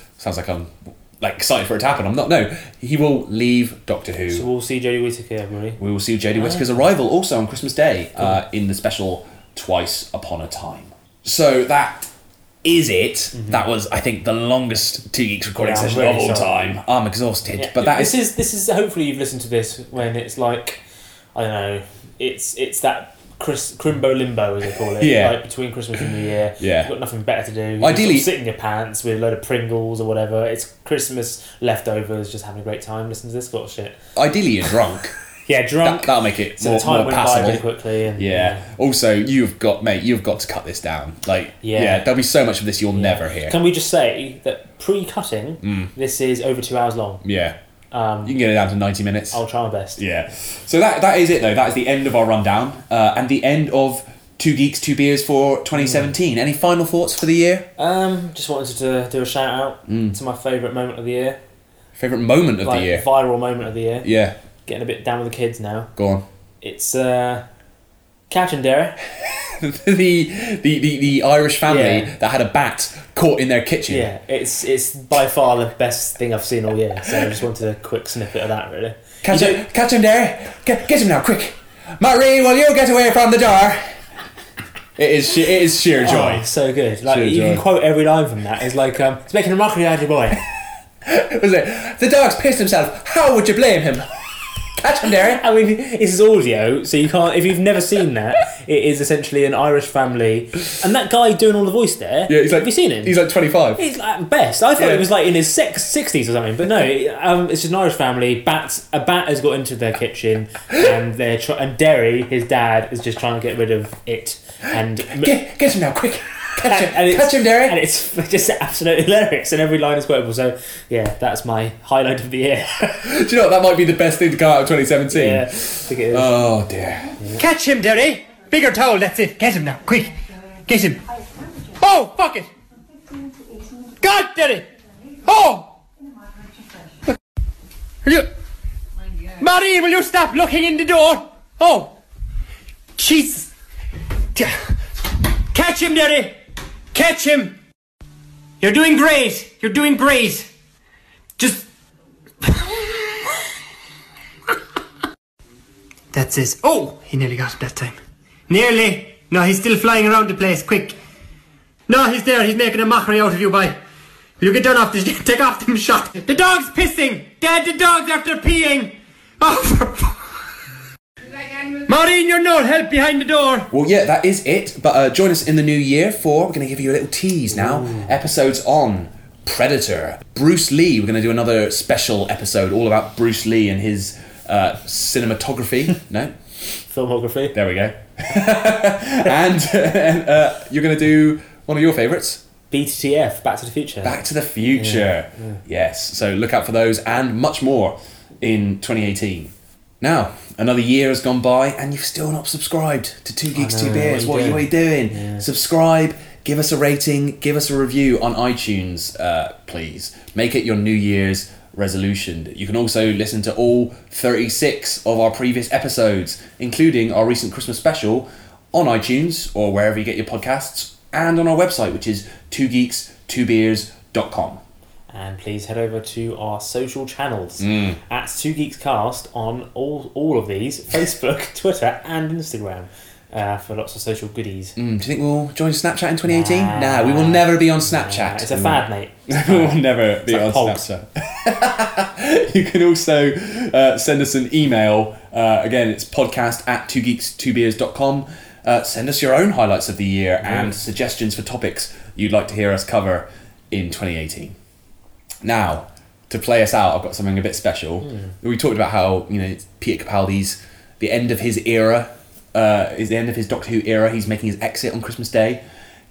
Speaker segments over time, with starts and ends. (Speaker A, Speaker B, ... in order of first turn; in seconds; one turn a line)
Speaker A: 0.2-4.5
Speaker B: 4.3-5.8
Speaker A: 5.8-12.1
Speaker B: 6.3-6.8
Speaker A: 12.6-18.2
Speaker B: 13.3-13.7
Speaker B: 15.5-16.5
Speaker B: 17.6-20.8
Speaker B: 21.4-34.0
Speaker A: 25.0-25.4
Speaker A: 26.6-26.9
Speaker A: 27.8-28.3
Speaker A: 34.2-35.1
Speaker B: 35.5-38.6
Speaker A: 35.8-37.6
Speaker A: 38.2-43.5
Speaker B: 41.6-42.1
Speaker B: 42.9-47.2
Speaker A: 45.6-45.9
Speaker A: 47.2-47.6
Speaker B: 47.9-48.4
Speaker A: 48.2-49.4
Speaker B: 49.3-50.0
Speaker A: 50.0-57.7
Speaker B: 55.8-56.1
Speaker B: 57.8-61.4
Speaker A: 59.9-60.2
Speaker A: 62.0-63.1
Speaker B: 62.6-64.1
Speaker A: 64.0-64.4
Speaker B: 64.7-65.9
Speaker A: 66.0-66.2
Speaker B: 66.6-67.5
Speaker B: 68.3-69.0
Speaker A: 69.5-74.1
Speaker B: 71.7-72.1
Speaker B: 73.9-79.6
Speaker A: 79.2-84.0
Speaker A: 85.0-86.5
Speaker B: 86.0-90.4
Speaker A: 87.1-87.6
Speaker A: 91.0-94.1
Speaker A: 94.8-95.4
Speaker B: 95.2-103.1
Speaker A: 102.3-103.8
Speaker B: 103.8-115.4
Speaker A: 104.8-105.0
Speaker A: 115.1-117.8
Speaker B: 116.6-123.1
Speaker A: 123.0-127.2
Speaker B: 125.1-126.4
Speaker C: 127.4-131.0
Speaker C: 131.8-132.5
Speaker C: 133.9-134.7
Speaker C: 135.2-135.7
Speaker C: 139.4-141.9
Speaker C: 143.0-143.5
Speaker C: 144.3-144.6
Speaker C: 145.5-146.4
Speaker C: 146.9-147.6
Speaker C: 148.6-150.5
Speaker C: 151.4-151.7
Speaker C: 156.1-158.0
Speaker C: 158.5-161.0
Speaker C: 161.9-163.8
Speaker C: 164.4-170.2
Speaker C: 171.6-173.7
Speaker A: 173.7-186.3
Speaker B: 177.5-178.2
Speaker B: 186.9-187.6
Speaker A: 187.5-192.4
Speaker B: 192.7-194.2
Speaker A: 194.0-224.6
Speaker B: 194.7-195.6
Speaker B: 203.6-205.5
Speaker B: 225.1-234.8
Speaker A: 227.6-228.0
Speaker A: 234.8-254.6
Speaker B: 236.3-240.8
Speaker B: 250.4-250.7
Speaker A: 255.4-265.6
Speaker B: 258.0-258.3